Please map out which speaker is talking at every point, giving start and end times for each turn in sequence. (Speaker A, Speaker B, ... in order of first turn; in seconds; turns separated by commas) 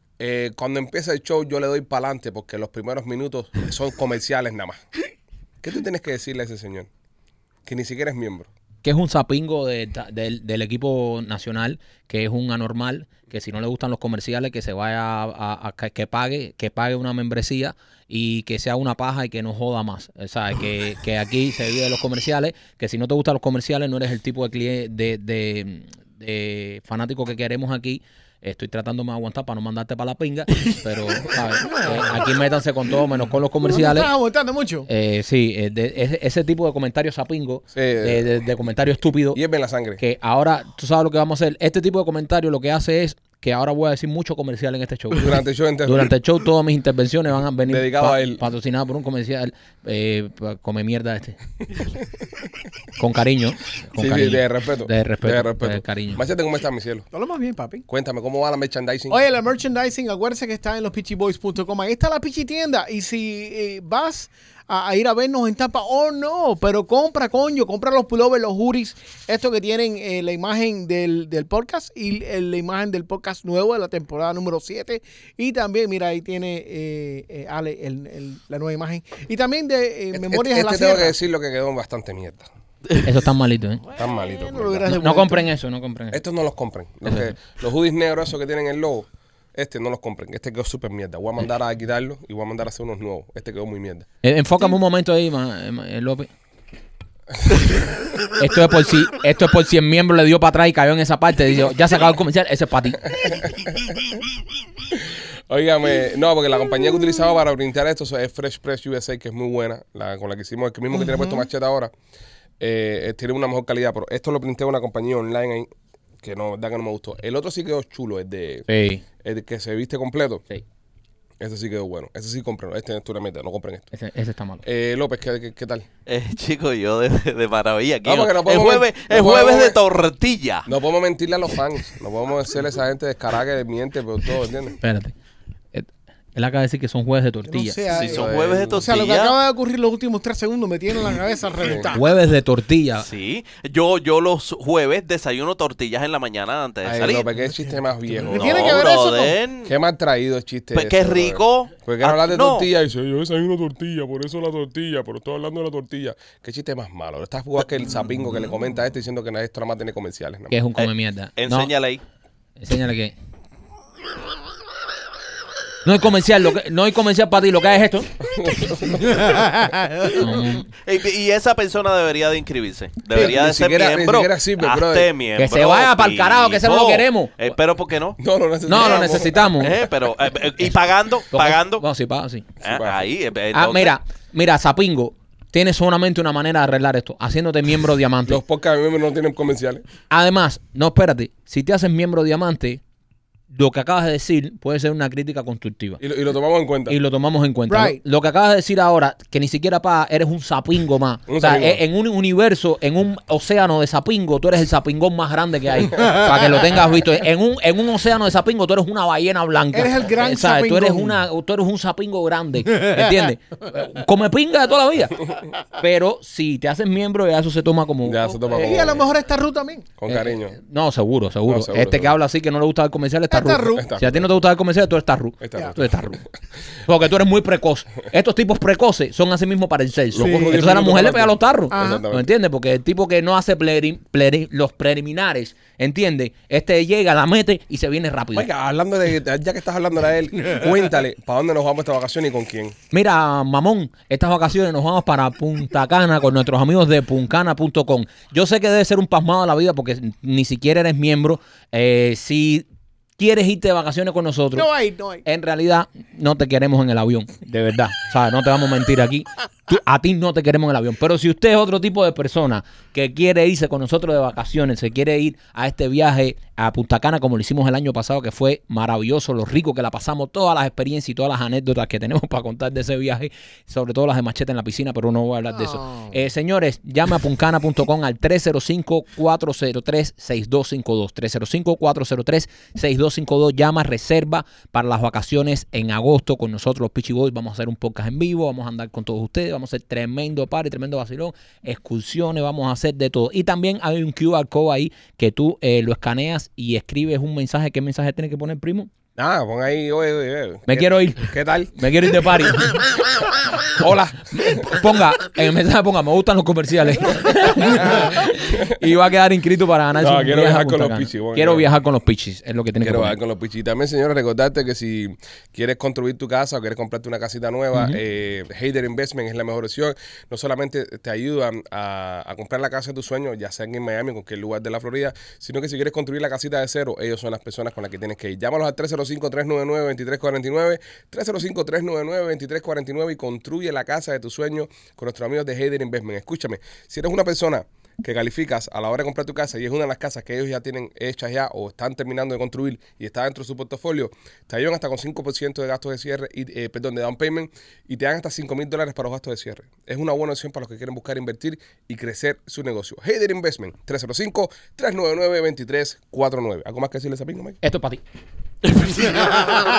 Speaker A: 0.2-4.8, Speaker A: 5.6-6.9, Speaker A: 7.7-8.5, Speaker B: 8.8-34.1, Speaker C: 31.7-32.2, Speaker C: 33.6-34.9, Speaker B: 34.9-39.4, Speaker A: 37.7-38.2, Speaker A: 39.3-40.0, Speaker B: 40.0-51.4, Speaker A: 45.2-46.1, Speaker A: 47.7-48.4, Speaker B: 53.0-56.2, Speaker A: 54.0-57.0, Speaker C: 57.1-57.8, Speaker A: 57.9-59.2, Speaker C: 59.1-81.2, Speaker A: 80.1-82.5, Speaker B: 83.0-83.9, Speaker A: 83.9-85.0, Speaker C: 84.0-85.5, Speaker B: 84.9-86.2, Speaker A: 86.1-94.1, Speaker B: 94.2-96.3, Speaker B: 98.4-103.0, Speaker A: 103.2-103.8, Speaker A: 104.9-111.9, Speaker C: 110.9-111.5, Speaker A: 112.6-115.7, Speaker A: 116.2-118.7, Speaker B: 118.7-119.0, Speaker A: 119.2-120.5, Speaker A: 121.4-123.9, Speaker B: 123.9-124.6, Speaker A: 124.6-125.8, Speaker D: 126.0-130.7, Speaker A: 128.0-129.8, Speaker A: 130.7-134.8, Speaker B: 134.8-135.1, Speaker B: 135.7-137.8, Speaker C: 137.5-142.1, Speaker D: 137.9-139.3, Speaker A: 138.0-138.8, Speaker A: 141.6-141.9, Speaker B: 141.9-143.1, Speaker D: 143.0-147.3, Speaker A: 146.8-148.8, Speaker C: 148.1-149.4, Speaker D: 148.3-149.7, Speaker A: 149.7-160.6, Speaker D: 150.7-152.7, Speaker B: 160.5-161.7, Speaker D: 160.8-162.0, Speaker B: 162.6-163.1, Speaker B: 165.8-168.1, Speaker A: 168.2-169.8, Speaker B: 170.1-170.7, Speaker D: 170.8-178.2, Speaker A: 173.1-175.1, Speaker B: 175.3-177.5, Speaker A: 178.2-179.5, Speaker B: 178.7-179.8, Speaker D: 178.8-179.0, Speaker D: 179.6-181.8, Speaker B: 181.3-182.5, Speaker D: 182.6-183.9, Speaker A: 182.6-183.1, Speaker B: 183.5-188.4, Speaker A: 188.3-189.8, Speaker B: 190.1-192.8, Speaker B: 193.5-196.0, Speaker A: 196.0-197.0, Speaker B: 196.9-218.8, Speaker C: 197.7-198.0, Speaker A: 201.3-201.8, Speaker C: 209.7-211.2, Speaker A: 218.0-219.1, Speaker C: 218.5-219.9, Speaker A: 220.0-220.6, Speaker B: 220.1-226.2, Speaker A: 221.5-222.1, Speaker C: 223.3-223.9, Speaker A: 223.6-224.4, Speaker A: 225.4-226.2, Speaker B: 226.9-238.5, Speaker A: 230.1-232.3, Speaker C: 230.2-230.6, Speaker C: 231.7-232.1, Speaker A: 238.3-242.8, Speaker B: 242.9-252.6, Speaker B: 253.2-254.7, Speaker C: 254.5-255.2, Speaker B: 255.2-298.9, Speaker C: 275.5-276.1, Speaker A: 299.2-301.7, Speaker B: 300.7-302.8, Speaker A: 303.8-304.8, Speaker B: 304.5-313.1, Speaker A: 310.0-311.6, Speaker A: 312.8-357.6, Speaker B: 357.6-358.0, Speaker D: 358.7-359.6